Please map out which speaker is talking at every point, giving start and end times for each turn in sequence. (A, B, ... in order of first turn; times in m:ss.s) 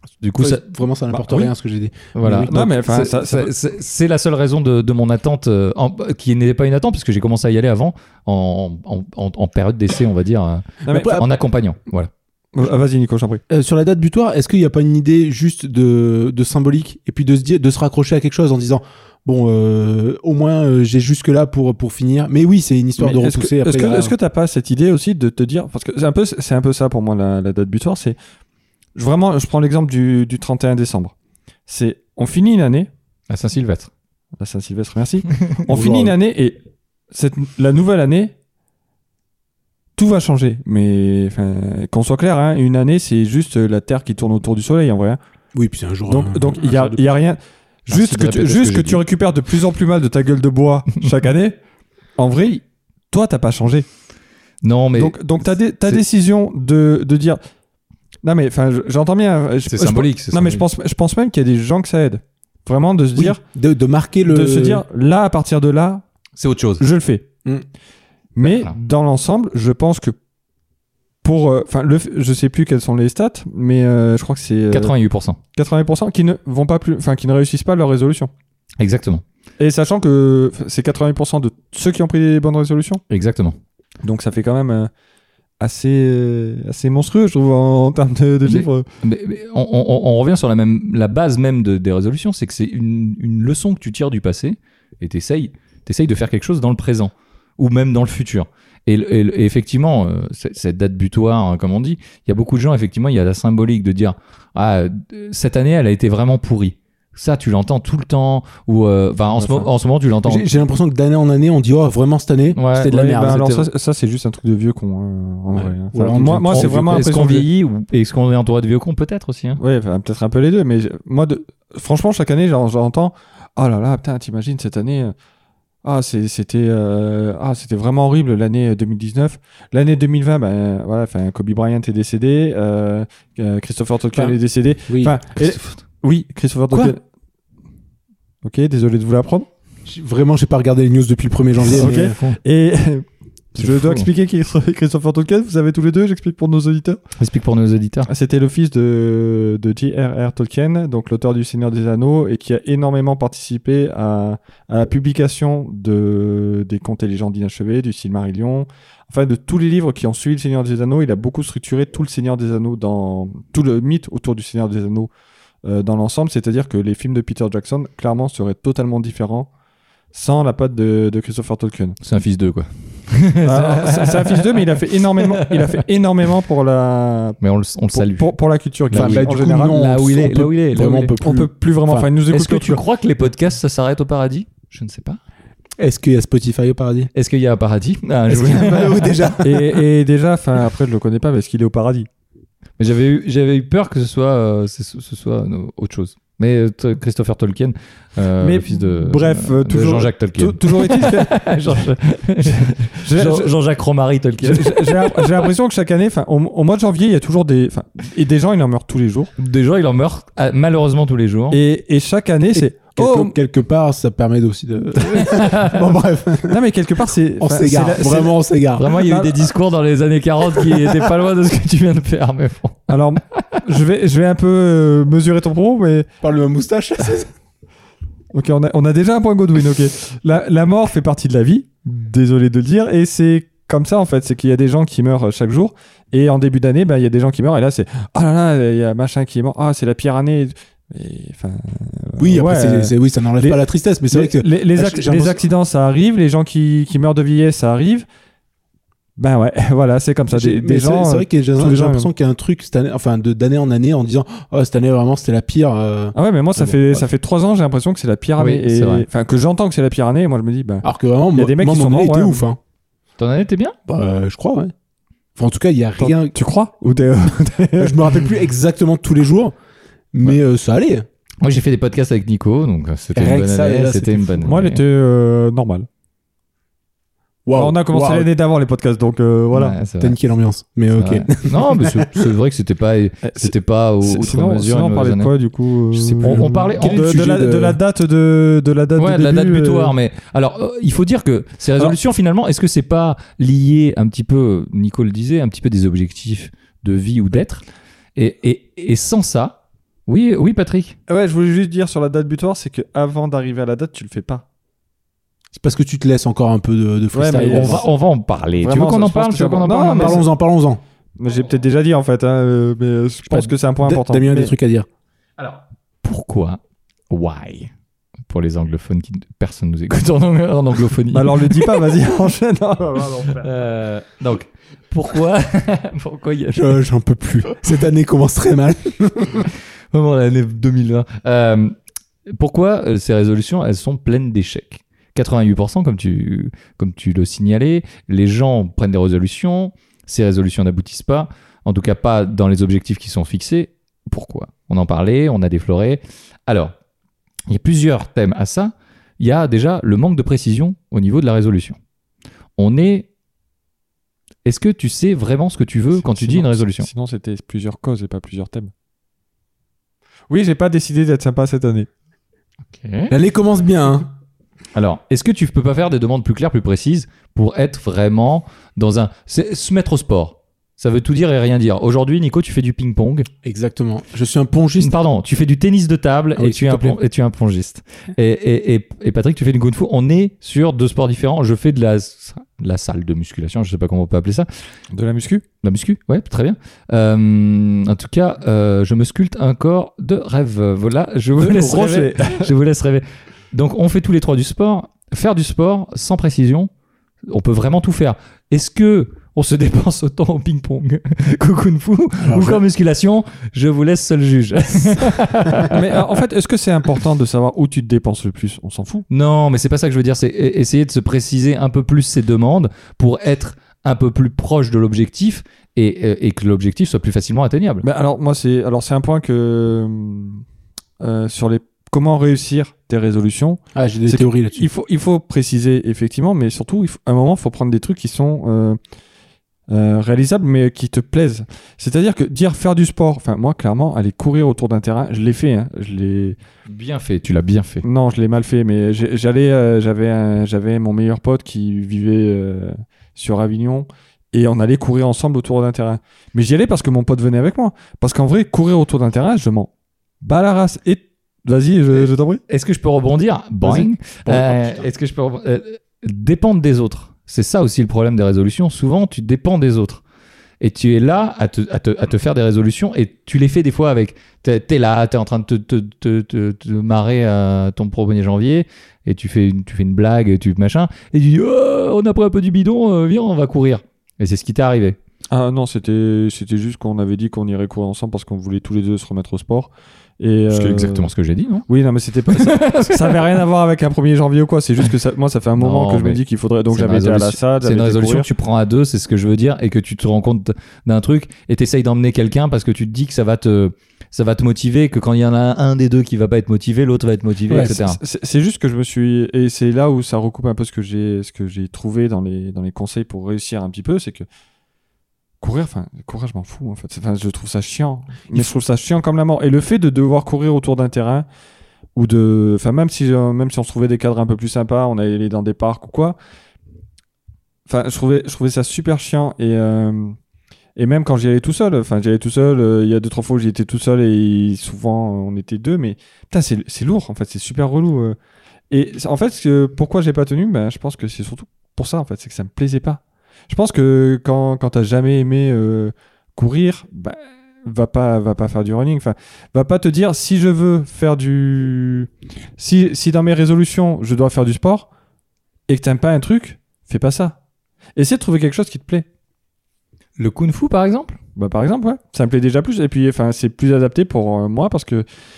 0:00.2-0:00.7 A
0:00.4-0:02.6 B
0:02.1-0:12.1 A
0:02.3-0:03.5 C
0:10.9-0:11.2 B
0:10.9-0:11.2 C
0:12.5-0:13.4 C
0:13.5-0:24.1 B
0:23.0-0:28.2 C
0:28.9-0:31.1 C
0:31.7-0:32.9 C
0:33.3-0:33.9 A
0:34.4-0:36.6 C
0:35.7-0:36.1 B
0:37.1-0:38.3 C
0:40.0-0:45.2 C
0:45.6-0:47.1 B
0:46.1-0:51.6 C
0:47.9-0:49.0 A
0:52.2-0:53.8 C
0:54.6-0:55.1 A
0:55.0-0:57.4 C
0:58.2-1:03.4 C
0:59.6-1:00.6 A
1:03.2-1:04.8 B
1:04.3-1:06.0 C
1:06.4-1:06.8 A
1:06.8-1:07.2 C
1:08.4-1:10.1 C
1:08.4-1:08.8 A
1:11.2-1:14.9 C
1:14.7-1:15.4 A
1:15.6-1:18.3 C
1:18.8-1:19.2 A
1:19.6-1:23.0 C
1:23.1-1:23.6 A
1:24.0-1:24.9 C
1:25.6-1:28.8 C
1:28.4-1:50.4 A
1:50.2-1:53.7 B
1:52.6-1:53.0 A
1:52.9-1:57.5 C
1:55.5-1:56.8 B
1:56.5-1:59.6 A
1:59.6-2:05.1 C
2:05.8-2:17.0 C
2:14.9-2:15.2 B
2:16.7-2:17.0 B
2:18.4-2:19.5 C
2:19.9-2:22.2 B
2:21.6-2:22.4 A
2:21.7-2:27.0 C
2:23.6-2:24.1 A
2:27.2-2:28.1 A
2:28.1-2:45.1 C
2:45.6-2:49.5 C
2:50.1-2:52.0 C
2:52.0-2:54.6 A
2:53.4-2:57.4 C
2:55.2-2:55.8 A
2:57.4-2:58.3 A
2:57.9-2:59.9 C
2:58.9-3:01.1 A
2:58.9-3:02.1 B
3:01.2-3:02.8 C
3:02.3-3:05.2 A
3:05.8-3:07.1 B
3:07.1-3:09.3 A
3:08.3-3:09.8 B
3:09.4-3:12.1 C
3:12.8-3:25.5 A
3:18.4-3:21.8 C
3:22.4-3:23.5 C
3:24.4-3:29.3 C
3:29.4-3:31.6 A
3:31.5-3:33.4 C
3:32.5-3:36.6 B
3:35.2-3:35.8 A
3:36.5-3:39.5 C
3:37.4-3:38.9 B
3:38.8-3:43.4 A
3:42.9-3:46.1 C
3:46.2-3:47.3 B
3:48.3-4:08.1 C
4:02.2-4:05.4 B
4:09.2-4:12.1 C
4:10.3-4:17.0 B
4:16.2-4:22.4 C
4:18.4-4:19.1 A
4:20.8-4:22.6 B
4:23.2-4:23.7 A
4:23.9-4:24.7 B
4:25.4-4:26.4 B
4:26.0-4:28.2 C
4:27.8-4:29.5 B
4:30.1-4:31.1 B
4:31.4-4:34.8 A
4:33.1-4:34.5 B
4:34.4-4:35.9 C
4:37.4-4:38.3 B
4:37.6-4:39.8 C
4:39.5-4:40.2 A
4:40.0-4:42.2 B
4:41.0-4:45.3 A
4:43.2-4:49.9 C
4:45.9-4:47.0 A
4:46.8-4:47.8 B
4:49.0-4:57.6 A
4:58.2-5:01.0 A
5:01.1-5:04.4 C
5:05.6-5:07.8 B
5:07.1-5:07.9 C
5:07.3-5:10.2 A
5:08.6-5:10.2 C
5:09.9-5:10.8 B
5:11.2-5:14.5 C
5:13.3-5:14.9 B
5:15.4-5:17.7 A
5:18.3-5:21.9 A
5:21.1-5:23.5 C
5:23.4-5:26.8 A
5:26.5-5:29.5 B
5:29.9-5:31.7 A
5:32.3-5:46.7 A
5:47.5-5:51.8 A
5:52.6-5:53.1 A
5:54.4-5:56.9 A
5:56.0-5:58.7 C
6:00.3-6:01.9 C
6:02.7-6:03.1 A
6:03.1-6:04.1 B
6:04.7-6:13.3 A
6:13.4-6:14.9 B
6:14.8-6:24.5 A
6:16.4-6:17.0 B
6:24.9-6:25.4 C
6:25.6-6:36.7 A
6:31.4-6:32.5 C
6:37.3-6:46.1 A
6:42.2-6:42.6 B
6:45.6-6:49.0 C
6:49.1-6:57.8 A
6:57.8-7:00.4 C
7:01.0-7:08.8 C
7:03.7-7:04.7 B
7:09.7-7:16.4 C
7:16.7-7:17.8 A
7:17.8-7:29.7 C
7:30.2-7:32.4 C
7:31.9-7:40.0 A
7:33.6-7:34.8 B
7:40.6-7:55.0 A
7:55.3-8:01.1 C
8:00.5-8:01.7 A
8:01.7-8:08.3 C
8:02.3-8:03.4 A
8:05.6-8:18.0 A
8:17.5-8:17.8 B
8:17.5-8:24.3 C
8:25.4-8:31.3 C
8:32.0-8:36.2 C
8:37.7-8:40.2 C
8:40.8-8:48.2 C
8:48.7-9:04.9 C
9:05.7-9:07.4 C
9:08.0-9:09.0 C
9:10.2-9:11.2 A
9:11.4-9:15.0 C